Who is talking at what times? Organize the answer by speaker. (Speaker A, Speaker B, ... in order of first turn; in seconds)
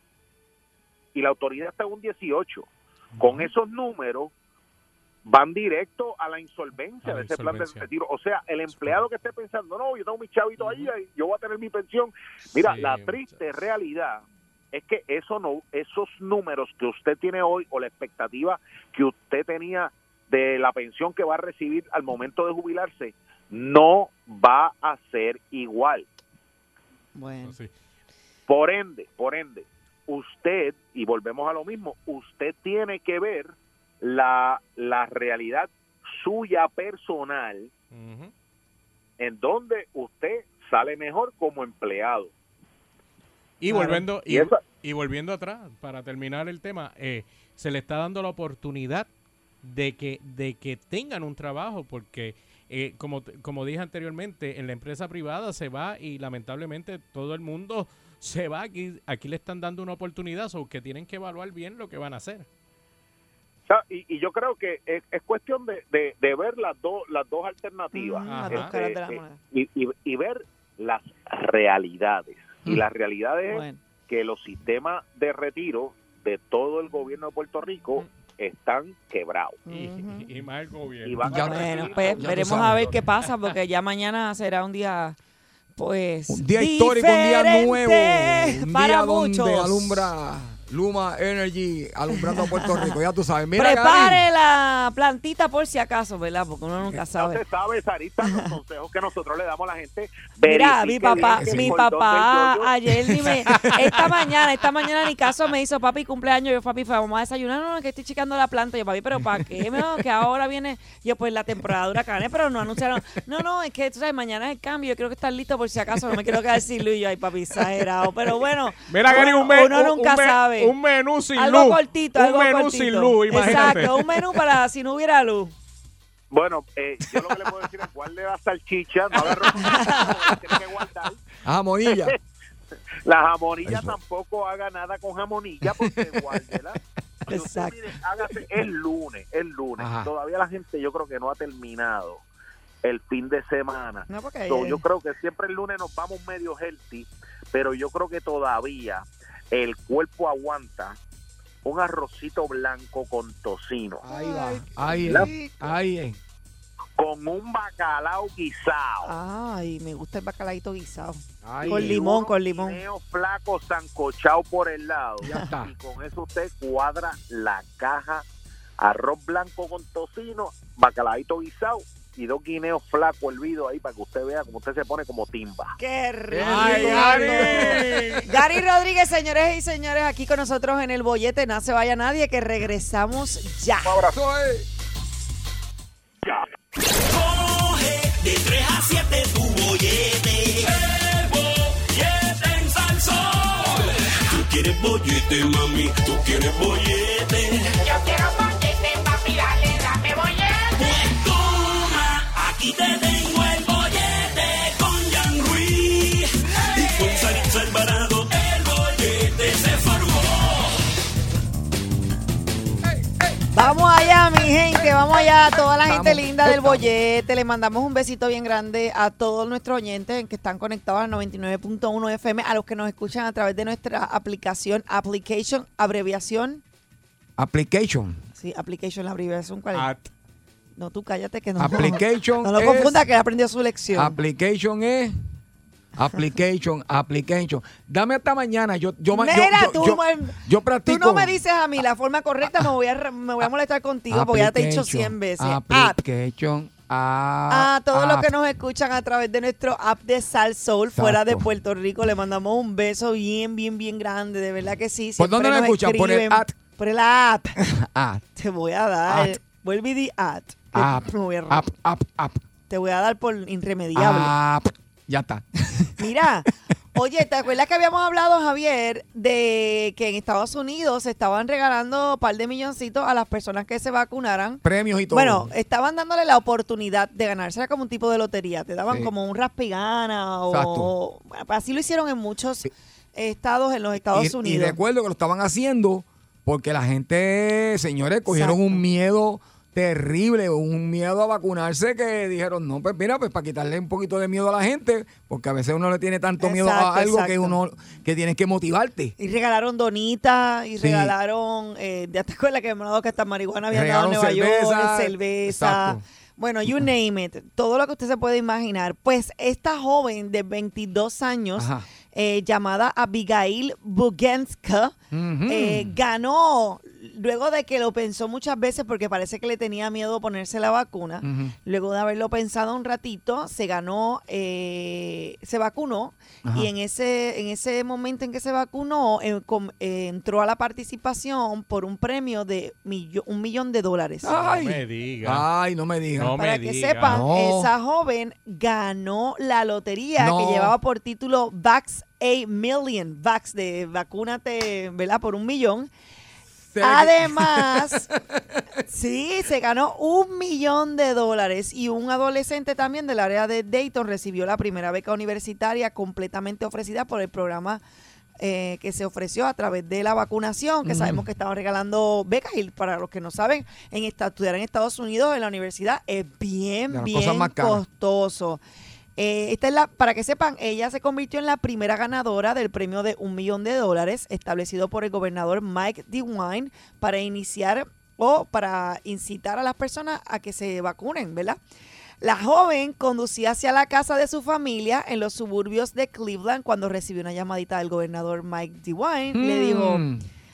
Speaker A: 1.1-2.7, 3.2-4.3, 5.3-26.1, 28.5-37.7, 39.2-42.3, 43.7-44.6, 63.7-79.6, 81.0-82.9, 97.1-102.7, 126.3-131.2, 131.9-132.2, 133.1-142.2, 142.8-151.0, 151.6-154.1, 155.0-155.3, 157.0-159.1, 161.6-168.2, 168.8-175.8, 183.9-184.1
Speaker B: 3.2-3.5, 7.0-7.9, 8.7-9.0, 10.6-10.9, 12.5-13.4, 27.4-27.7, 37.9-38.3, 43.6-49.1, 49.6-62.5, 68.3-68.7, 79.7-82.1, 118.9-124.2, 176.4-178.3, 229.7-230.0, 334.4-335.5, 336.2-337.2
Speaker C: 27.1-27.6, 43.7-44.0, 67.9-69.4, 73.5-73.8, 79.7-80.3, 81.4-85.2, 85.8-90.1, 92.3-93.0, 93.5-97.4, 98.2-98.5, 100.4-120.7, 121.4-125.5, 129.6-130.1, 137.3-137.8, 144.1-144.8, 154.1-155.6, 159.1-162.8, 175.8-184.0, 213.5-226.6, 228.4-229.9, 230.8-234.2, 239.1-246.0, 247.5-257.6, 258.4-261.6, 262.7-264.3, 266.0-284.8, 288.3-288.8, 296.4-297.6, 299.2-315.0, 315.5-334.3, 336.4-345.9, 346.8-348.1, 348.9-357.8, 358.4-368.6, 369.2-381.6, 382.2-390.1
Speaker D: 81.3-81.6, 82.2-82.9, 86.3-94.2, 101.2-101.8, 109.3-109.8, 131.4-132.1, 133.6-134.0, 135.7-136.4, 139.8-140.1, 154.0-156.2, 161.4-162.0, 165.2-165.7, 176.3-178.2, 184.1-184.7, 212.9-213.4, 215.6-216.9, 227.4-228.2, 231.6-233.1, 233.9-235.2, 236.0-241.4, 244.1-248.3, 250.9-251.4, 255.2-256.5, 257.6-258.2, 259.1-259.4, 260.7-262.4, 263.9-266.1, 274.6-275.5, 280.5-280.9, 284.1-299.1, 300.8-301.1, 303.7-306.0, 311.6-311.9, 315.1-315.9, 321.2-321.5, 326.4-326.7, 334.2-336.4, 337.0-337.7, 340.2-340.7, 346.7-348.6, 360.9-361.2, 366.9-367.8, 389.3-390.2
Speaker E: 186.9-197.8, 200.8-210.7
Speaker F: 197.8-200.8